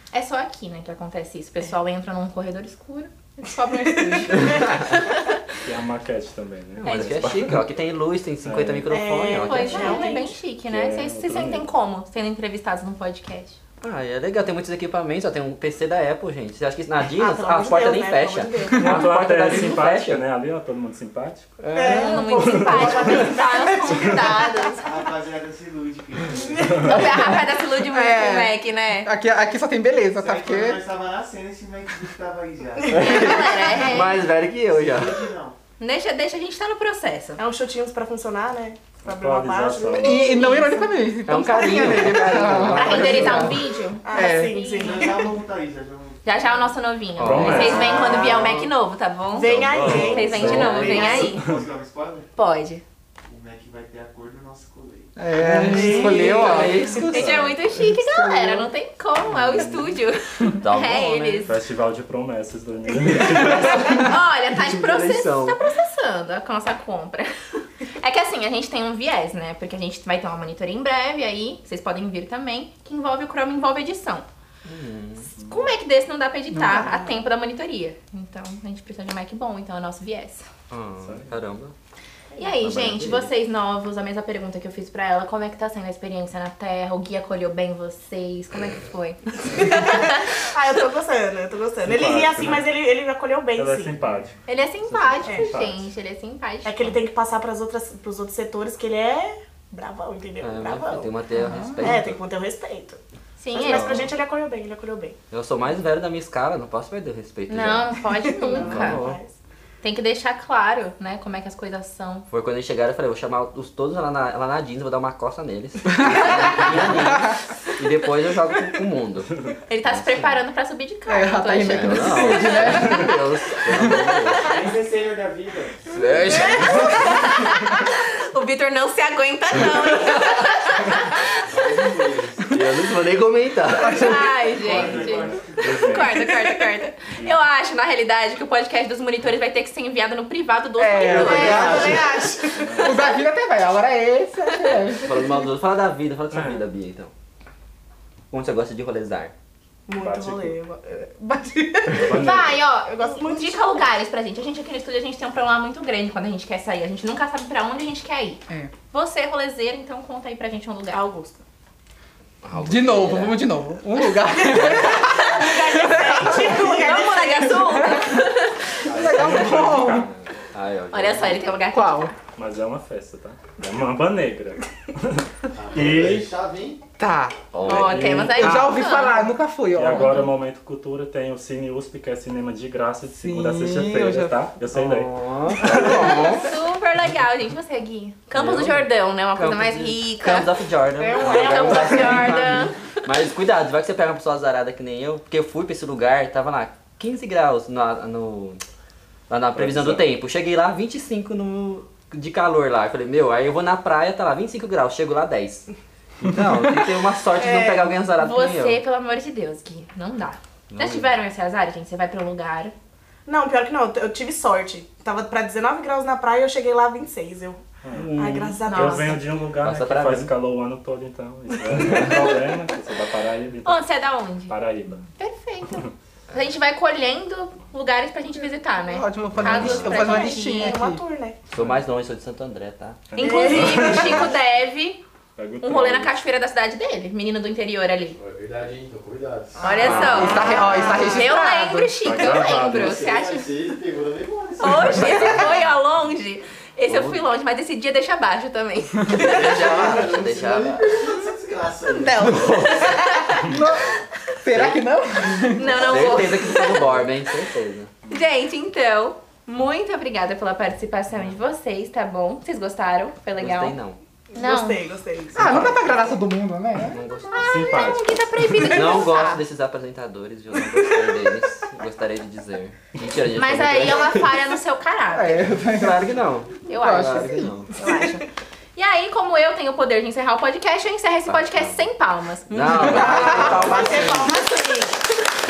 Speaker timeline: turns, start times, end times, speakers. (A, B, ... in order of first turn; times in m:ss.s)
0:00.1-0:05.4 A
0:04.3-0:04.8 B
0:05.6-0:07.6 C
0:06.8-0:10.2 B
0:06.8-0:07.3 A
0:08.4-0:08.9 C
0:08.9-0:10.4 D
0:09.4-0:13.6 A
0:10.6-0:11.7 C
0:13.8-0:20.2 B
0:17.1-0:19.2 D
0:18.8-0:21.5 C
0:21.6-0:22.2 B
0:21.7-0:23.7 D
0:21.8-0:24.9 A
0:22.2-0:23.3 C
0:22.7-0:23.2 E
0:23.0-0:23.3 B
0:23.9-0:27.1 E
0:24.0-0:24.2 C
0:26.4-0:26.7 D
0:26.6-0:27.0 C
0:26.8-0:29.1 A
0:27.0-0:30.8 F
0:30.2-0:33.2 E
0:32.8-0:33.8 D
0:32.9-0:35.2 B
0:32.9-0:34.1 A
0:33.9-0:35.6 E
0:35.8-0:37.4 A
0:37.4-0:40.3 D
0:39.0-0:40.2 C
0:40.0-0:41.1 A
0:40.0-0:44.6 F
0:41.2-0:43.4 B
0:42.7-0:45.1 A
0:43.1-0:43.5 C
0:44.0-0:45.3 D
0:44.8-0:46.7 E
0:46.2-0:51.4 A
0:47.2-0:48.2 B
0:47.2-0:48.7 C
0:47.4-0:48.7 E
0:49.3-0:50.6 D
0:49.4-0:51.6 C
0:49.7-0:51.4 B
0:50.7-0:52.3 E
0:52.3-0:52.8 A
0:53.3-0:55.1 E
0:55.2-0:57.0 F
0:55.4-0:57.1 B
0:55.5-0:57.2 D
0:56.2-1:01.5 A
0:57.1-0:57.6 C
0:58.0-0:58.7 F
0:59.4-0:59.7 B
1:00.6-1:01.5 B
1:01.4-1:04.1 C
1:03.3-1:05.6 B
1:03.7-1:07.3 A
1:08.0-1:14.2 A
1:14.6-1:15.3 B
1:15.3-1:20.4 A
1:15.4-1:15.7 C
1:16.5-1:16.9 F
1:20.7-1:21.7 B
1:21.0-1:21.3 C
1:22.4-1:30.3 A
1:22.6-1:23.3 B
1:30.4-1:34.0 D
1:31.8-1:32.7 C
1:33.5-1:34.4 C
1:34.4-1:36.8 A
1:34.8-1:35.2 B
1:35.2-1:35.9 C
1:35.2-1:35.5 D
1:36.6-1:41.1 D
1:40.4-1:42.2 B
1:41.4-1:41.8 F
1:41.8-1:43.0 D
1:43.4-1:43.9 A
1:43.5-1:45.2 D
1:43.6-1:44.1 B
1:45.3-1:49.2 B
1:47.5-1:49.0 A
1:48.2-1:49.4 D
1:49.8-1:52.2 A
1:52.3-2:00.4 B
1:56.0-1:57.3 F
1:59.7-2:03.1 A
2:01.1-2:03.1 F
2:01.7-2:04.5 B
2:03.7-2:04.7 A
2:04.4-2:05.9 E
2:05.9-2:07.0 B
2:06.3-2:11.3 A
2:11.5-2:12.6 E
2:12.5-2:14.3 B
2:13.8-2:14.1 F
2:13.8-2:23.2 A
2:14.4-2:15.8 E
2:14.6-2:16.3 C
2:20.8-2:22.3 F
2:21.0-2:22.0 B
2:21.0-2:22.6 D
2:22.5-2:23.0 C
2:22.8-2:25.4 F
2:25.0-2:27.1 B
2:26.3-2:26.6 C
2:28.3-2:29.3 B
2:29.9-2:32.1 D
2:30.0-2:30.6 C
2:31.9-2:32.6 C
2:32.1-2:38.4 A
2:33.0-2:33.9 D
2:38.9-2:41.0 A
2:40.9-2:41.4 D
2:42.4-2:43.5 B
2:42.5-2:46.7 F
2:44.5-2:47.5 D
2:44.9-2:48.7 A
2:47.4-2:48.2 F
2:48.8-2:50.1 C
2:48.9-2:50.1 F
2:49.4-2:51.4 B
2:50.9-2:52.1 A
2:51.7-2:52.1 F
2:52.3-2:56.3 C
2:55.5-2:56.8 E
2:57.0-2:57.4 F
2:57.5-2:58.2 B
2:57.6-2:59.3 A
2:57.6-2:58.7 C
2:58.3-3:00.2 F
2:59.7-3:06.2 C
3:03.1-3:04.5 F
3:04.7-3:06.4 B
3:06.0-3:10.5 A
3:08.4-3:08.7 B
3:08.4-3:08.9 C
3:09.3-3:18.6 B
3:11.0-3:11.9 D
3:11.2-3:12.7 A
3:11.2-3:12.3 C
3:19.3-3:25.7 B
3:19.5-3:20.0 C
3:26.3-3:28.8 B
3:27.3-3:27.9 D
3:28.2-3:32.7 A
3:30.7-3:31.1 B
3:33.2-3:37.6 D
3:37.8-3:43.8 C
3:37.9-3:38.3 B
3:38.2-3:39.2 D
3:38.6-3:39.1 A
3:39.6-3:40.3 B
3:41.8-3:42.3 B
3:43.6-3:44.5 A
3:44.5-3:45.0 C
3:45.2-3:50.7 A
3:48.9-3:51.0 F
3:49.4-3:50.0 B
3:49.7-3:51.4 D
3:51.5-3:53.1 B
3:51.5-3:51.8 C
3:53.1-3:54.4 C
3:53.2-3:55.0 A
3:53.2-3:54.2 D
3:55.4-3:56.1 C
3:55.6-3:58.2 A
3:58.2-4:01.0 E
3:59.6-4:01.6 D
3:59.6-4:03.6 A
3:59.8-4:00.7 B
3:59.8-4:01.9 F
4:02.0-4:03.1 C
4:02.6-4:05.3 E
4:04.6-4:09.9 A
4:04.7-4:05.2 C
4:04.9-4:05.7 B
4:06.9-4:07.3 B
4:09.1-4:12.7 E
4:09.2-4:11.0 B
4:12.0-4:16.2 F
4:12.2-4:13.0 B
4:12.7-4:13.5 A
4:14.5-4:14.8 B
4:15.5-4:17.0 A
4:15.8-4:17.9 B
4:18.1-4:23.7 A
4:23.4-4:24.0 B
4:24.3-4:25.8 D
4:24.3-4:24.8 A
4:25.3-4:27.0 F
4:26.8-4:27.7 B
4:27.3-4:29.4 A
4:27.4-4:28.0 C
4:28.7-4:34.4 B
4:33.3-4:35.5 A
4:35.1-4:36.1 F
4:35.6-4:37.7 B
4:36.7-4:44.9 A
4:36.7-4:38.0 F
4:41.3-4:41.9 B
4:42.5-4:44.3 B
4:42.9-4:44.2 F
4:43.4-4:44.5 D